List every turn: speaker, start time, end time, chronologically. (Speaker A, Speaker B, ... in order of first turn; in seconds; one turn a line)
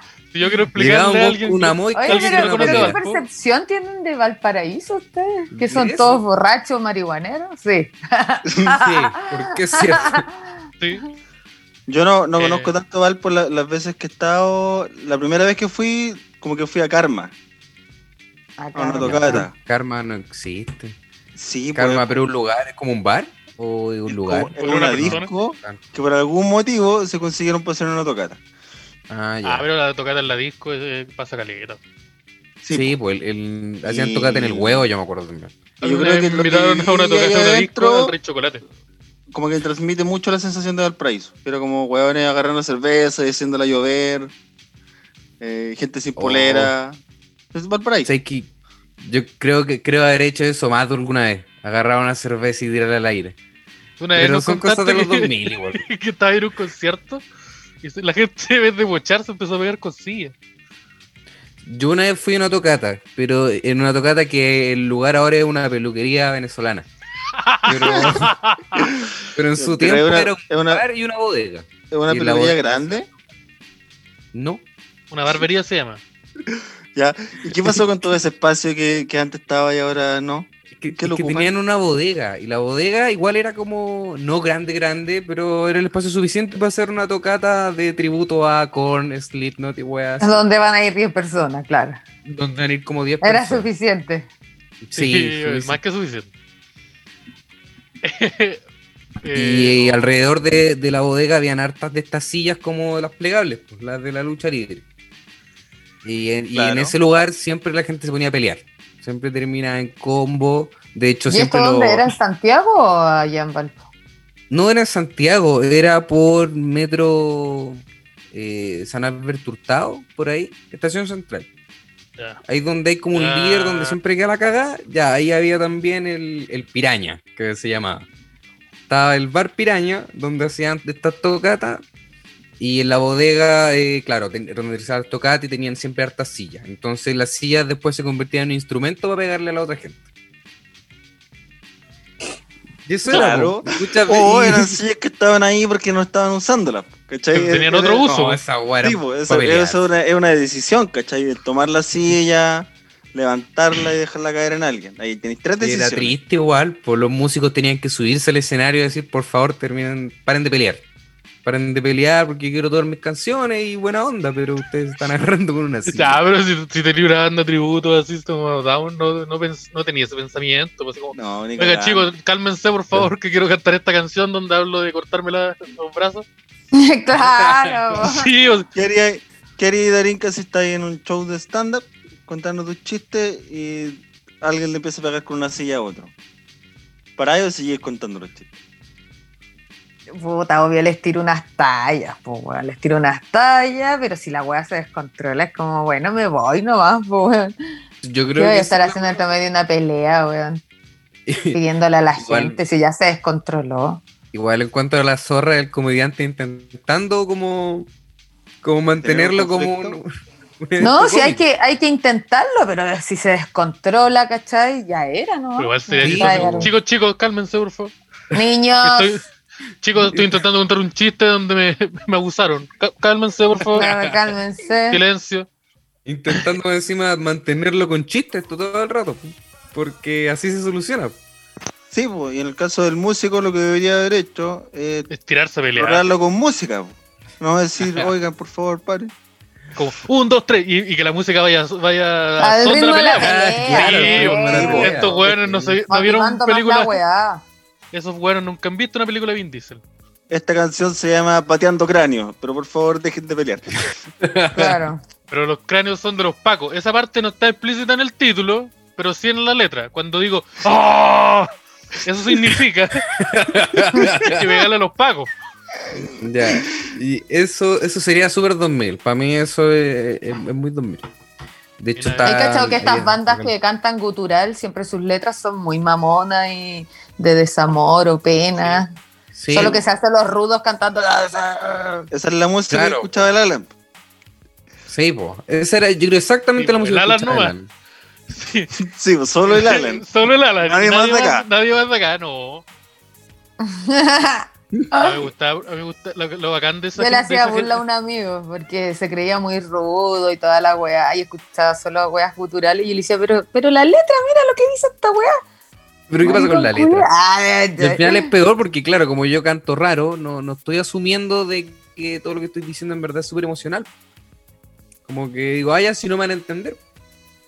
Speaker A: 0.3-3.2
Speaker B: 0.7-3.0
Speaker C: 1.9-10.5
Speaker B: 5.5-6.2
Speaker D: 8.5-8.8
Speaker B: 8.8-10.3
Speaker A: 10.8-11.1
Speaker D: 11.9-17.3
Speaker A: 12.4-12.7
Speaker C: 18.6-19.5
Speaker D: 18.8-19.5
Speaker B: 19.0-21.0
Speaker D: 21.4-22.1
Speaker B: 21.7-25.8
Speaker D: 24.1-28.4
Speaker A: 24.6-25.3
Speaker B: 29.1-29.6
Speaker A: 29.4-31.8
Speaker D: 32.6-32.9
Speaker B: 32.7-35.5
Speaker D: 33.8-34.9
Speaker A: 35.8-38.6
Speaker D: 35.8-38.1
Speaker D: 39.3-44.3
Speaker D: 45.4-47.0
Speaker B: 46.1-46.7
Speaker D: 47.5-48.1
Speaker B: 48.0-48.5
Speaker B: 49.0-53.4
Speaker A: 54.0-57.2
Speaker B: 54.1-55.8
Speaker A: 57.8-60.3
Speaker B: 61.6-66.8
Speaker A: 67.3-68.9
Speaker B: 67.6-68.3
Speaker D: 67.8-68.2
Speaker B: 69.3-72.6
Speaker D: 69.6-70.8
Speaker D: 71.9-73.1
Speaker B: 74.3-74.6
Speaker A: 75.1-76.0
Speaker D: 76.9-81.5
Speaker B: 80.8-90.4
Speaker C: 90.2-92.0
Speaker B: 92.2-93.7
Speaker C: 93.2-94.3
Speaker B: 94.8-95.8
Speaker A: 94.9-96.3
Speaker A: 98.0-98.6
Speaker A: 99.2-100.1
Speaker B: 99.3-104.8
Speaker B: 106.0-112.1
Speaker D: 106.5-106.9
Speaker C: 111.3-113.8
Speaker B: 114.5-121.5
Speaker B: 122.4-128.1
Speaker A: 123.1-124.0
Speaker B: 128.9-131.8
Speaker B: 132.6-140.0
Speaker B: 142.8-144.8
Speaker D: 143.1-148.1
Speaker A: 147.3-148.4
Speaker B: 148.1-149.8
Speaker D: 148.8-156.2
Speaker B: 155.6-160.8
Speaker B: 161.4-166.2
Speaker A: 165.9-176.2
Speaker D: 171.1-172.1
Speaker C: 176.7-178.3
Speaker B: 177.1-178.0
Speaker A: 178.0-178.7
Speaker D: 178.7-186.1
Speaker D: 187.2-188.5
Speaker C: 190.1-197.5
Speaker B: 198.0-199.2
Speaker C: 198.3-200.6
Speaker B: 201.3-201.6
Speaker C: 201.5-204.0
Speaker B: 202.2-202.6
Speaker B: 204.3-207.9
Speaker B: 208.6-210.1
Speaker D: 209.0-210.0
Speaker B: 210.6-211.4
Speaker C: 210.8-216.7
Speaker A: 215.6-217.9
Speaker B: 216.0-216.7
Speaker C: 218.3-219.2
Speaker A: 218.8-219.2
Speaker A: 219.8-223.9
Speaker B: 220.0-220.4
Speaker B: 223.6-224.2
Speaker C: 223.7-225.0
Speaker A: 224.9-225.5
Speaker B: 226.1-231.2
Speaker D: 231.9-235.1
Speaker A: 235.1-236.1
Speaker D: 235.8-239.1
Speaker A: 239.7-247.0
Speaker C: 242.4-244.9
Speaker B: 243.2-245.8
Speaker D: 244.5-244.9
Speaker C: 245.9-247.4
Speaker A: 247.9-249.8
Speaker D: 250.3-253.9
Speaker B: 254.2-254.8
Speaker C: 254.5-255.0
Speaker A: 255.3-263.1
Speaker B: 263.2-264.6
Speaker A: 264.0-265.3
Speaker B: 265.9-271.0
Speaker B: 271.8-273.5
Speaker A: 272.0-272.4
Speaker C: 272.2-278.9
Speaker A: 278.6-278.8
Speaker B: 279.3-279.8
Speaker C: 279.5-282.1
Speaker D: 279.6-279.8
Speaker D: 282.1-283.7
Speaker B: 282.7-283.1
Speaker B: 284.9-287.7
Speaker A: 286.6-287.5
Speaker A: 288.3-288.7
Speaker D: 288.9-290.0
Speaker A: 289.4-292.6
Speaker D: 290.6-291.4
Speaker C: 293.6-295.2
Speaker A: 295.0-297.8
Speaker C: 297.0-305.4
Speaker B: 306.1-307.1
Speaker C: 306.2-308.3
Speaker B: 307.8-313.9
Speaker B: 315.1-316.8